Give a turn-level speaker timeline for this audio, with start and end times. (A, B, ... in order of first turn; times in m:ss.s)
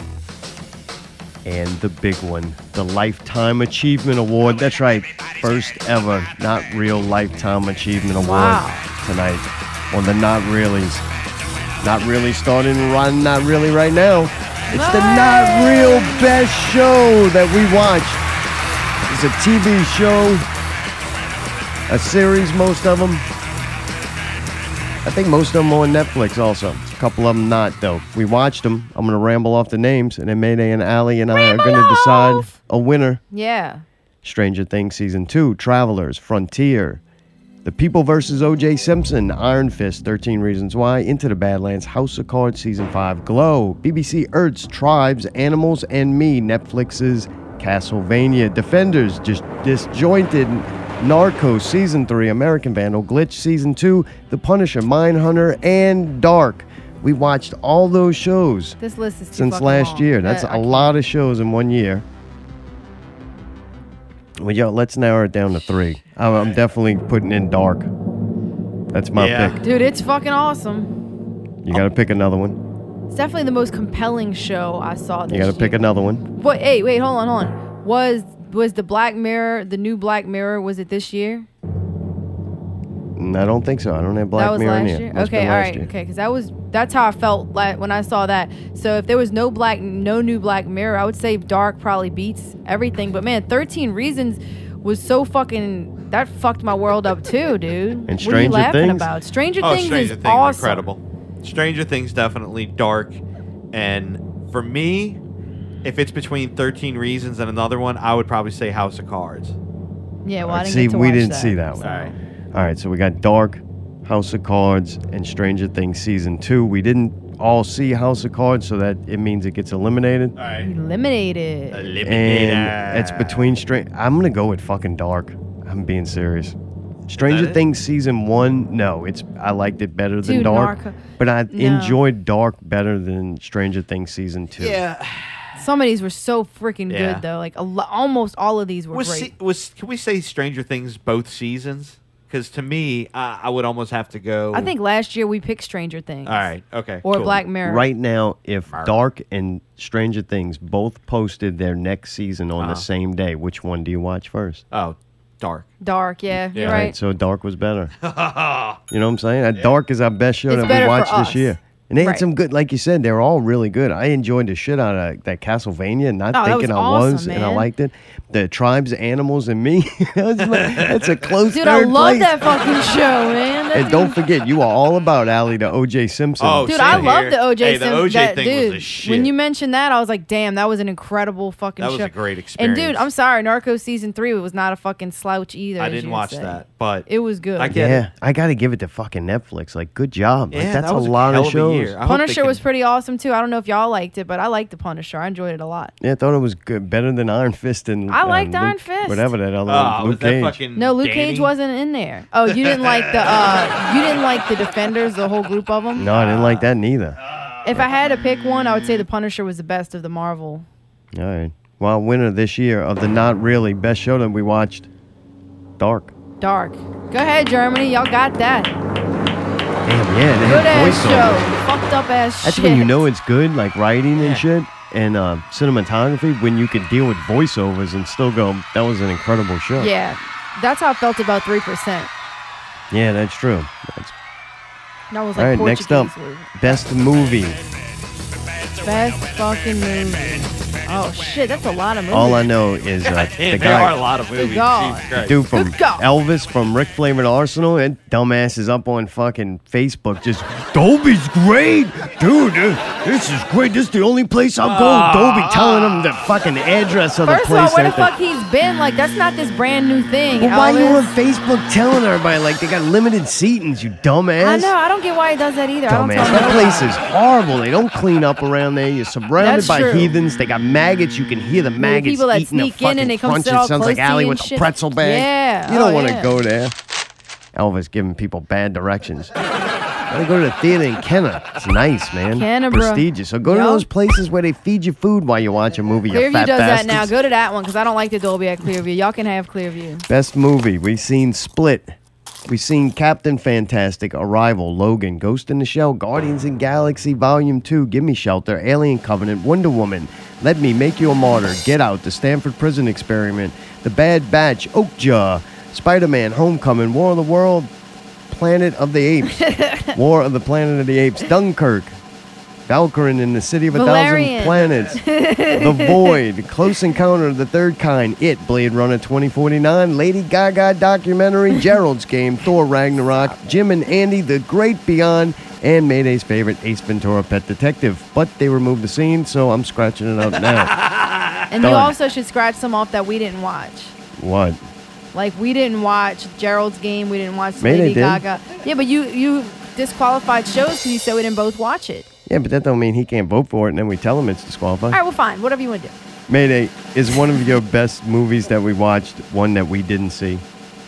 0:01.4-0:11.0 A
0:08.2-0:08.9 B
0:11.8-0:18.2 A
0:14.7-0:16.4 B
0:19.0-0:20.4 A
0:21.9-0:23.2 A
0:25.0-0:33.2 A
0:31.3-0:32.5 B
0:33.3-0:33.8 B
0:34.2-0:37.0 A
0:37.6-0:58.8 A
0:58.8-1:01.0 B
0:59.3-1:02.0 A
1:04.4-1:07.9 A
1:08.9-1:09.6 A
1:09.1-1:09.6 C
1:09.6-1:10.9 B
1:11.6-1:12.6 A
1:13.1-1:21.5 B
1:15.3-1:16.2 A
1:23.2-1:25.9 A
1:24.4-1:40.9 B
1:38.1-1:39.1 A
1:39.6-1:43.2 C
1:43.7-1:45.2 C
1:45.8-1:49.6 C
1:50.2-1:52.2 B
1:50.4-1:51.9 A
1:51.8-1:52.1 C
1:52.5-2:00.3 A
2:00.4-2:00.7 C
2:00.6-2:01.8 B
2:01.7-2:03.5 C
2:02.0-2:06.6 A
2:07.1-2:14.8 A
2:07.1-2:07.6 C
2:10.2-2:12.0 B
2:14.6-2:15.5 C
2:15.6-2:19.3 B
2:16.9-2:17.2 C
2:18.9-2:24.7 C
2:24.5-2:26.5 B
2:26.2-2:27.4 C
2:27.0-2:27.8 B
2:27.6-2:34.6 A
2:28.7-2:29.0 C
2:32.6-2:32.8 C
2:34.7-2:35.7 C
2:35.8-2:36.9 B
2:36.5-2:36.8 C
2:36.5-2:37.9 A
2:38.0-2:38.8 C
2:38.9-2:52.4 A
2:40.5-2:42.2 B
2:46.3-2:47.7 B
2:50.6-2:51.3 C
2:51.5-2:54.2 B
2:53.7-2:57.1 A
2:56.4-2:59.3 C
2:56.6-3:07.7 B
3:01.8-3:03.1 C
3:05.8-3:08.0 C
3:07.7-3:12.0 A
3:10.5-3:12.6 C
3:12.0-3:15.9 B
3:16.0-3:20.6 A
3:18.1-3:19.3 B
3:19.6-3:21.5 C
3:20.8-3:26.1 B
3:22.6-3:23.4 C
3:26.0-3:27.2 A
3:26.1-3:26.7 C
3:27.6-3:30.7 B
3:31.1-3:34.9 A
3:35.8-3:36.1 A
3:36.4-3:38.7 B
3:39.8-3:41.5 A
3:40.4-3:43.0 B
3:42.4-3:49.9 A
3:44.2-3:44.4 C
3:49.8-3:52.1 B
3:52.9-3:54.1 A
3:55.1-3:56.8 B
3:55.3-3:57.6 A
3:58.8-4:02.5 B
4:02.1-4:04.0 A
4:03.0-4:05.4 C
4:04.3-4:06.0 B
4:05.2-4:18.1 A
4:14.6-4:16.2 C
4:17.2-4:21.1 B
4:20.4-4:24.7 A
4:24.4-4:27.0 B
4:25.9-4:36.7 A
4:29.4-4:30.1 B
4:31.8-4:36.3 B
4:37.5-4:39.3 A
4:40.1-4:47.1 A
4:42.3-4:43.8 B
4:46.1-4:50.0 B
4:50.1-4:51.9 A
4:52.5-5:07.7 A
5:08.3-5:12.0 A
5:09.3-5:10.0 B
5:12.7-5:15.0 A
5:13.7-5:16.2 B
5:15.5-5:30.7 A
5:30.4-5:31.5 C
5:31.5-5:33.9 B
5:31.6-5:32.0 A
5:34.2-5:34.6 A
5:35.1-5:42.1 B
5:37.6-5:38.2 A
5:42.3-5:45.0 A
5:44.9-5:45.9 B
5:46.3-5:50.4 A